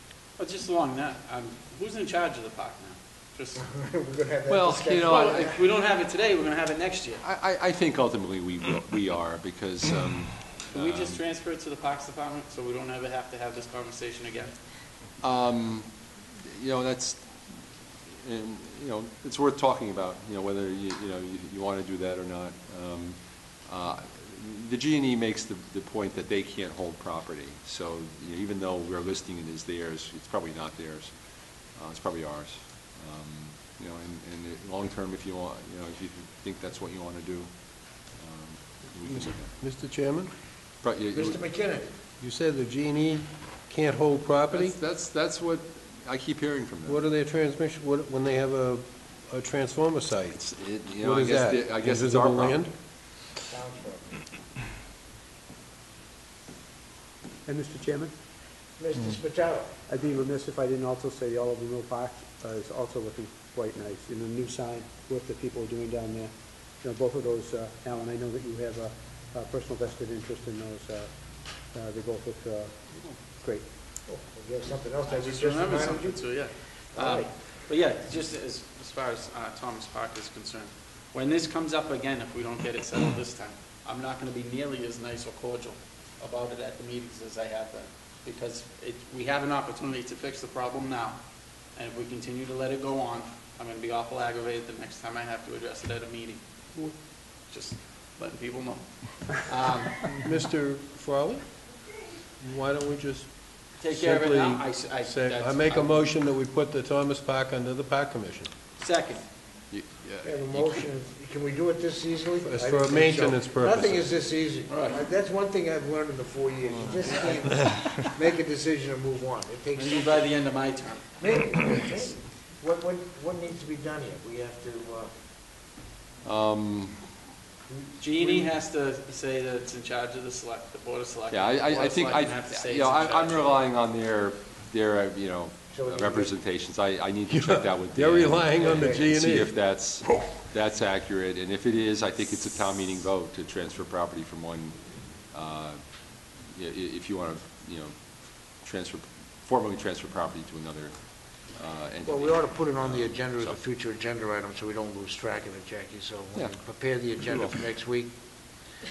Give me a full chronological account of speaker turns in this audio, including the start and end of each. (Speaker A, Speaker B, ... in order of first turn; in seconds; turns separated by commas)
Speaker A: 0.4-3.6, Speaker B: 3.6-5.6, Speaker C: 4.5-5.6, Speaker A: 5.1-7.2, Speaker C: 7.2-11.2, Speaker A: 10.7-14.5, Speaker C: 15.2-39.5, Speaker D: 39.0-40.3, Speaker C: 40.8-41.4, Speaker B: 41.1-41.9, Speaker D: 42.2-44.8, Speaker C: 44.5-47.0, Speaker D: 46.9-50.4, Speaker C: 50.3-52.6, Speaker D: 51.0-52.7, Speaker B: 53.5-54.2, Speaker E: 57.5-58.1, Speaker B: 58.8-59.7, Speaker E: 59.9-72.8, Speaker E: 73.3-73.7, Speaker B: 74.0-76.3, Speaker A: 75.1-91.2, Speaker B: 76.9-77.3, Speaker A: 91.7-96.4, Speaker A: 97.5-100.2, Speaker D: 100.2-101.7, Speaker D: 102.4-108.5, Speaker A: 103.8-106.0, Speaker A: 108.8-109.2, Speaker C: 109.7-110.8, Speaker B: 110.2-120.3, Speaker D: 112.4-114.1, Speaker A: 114.7-115.0, Speaker A: 117.0-117.4, Speaker A: 119.8-121.9, Speaker B: 121.2-125.1, Speaker C: 126.2-127.0, Speaker B: 127.7-128.5, Speaker A: 128.0-133.6, Speaker C: 131.3-153.6, Speaker B: 135.7-136.3, Speaker D: 137.3-140.3, Speaker B: 138.7-139.1, Speaker B: 152.0-158.1, Speaker C: 157.2-157.5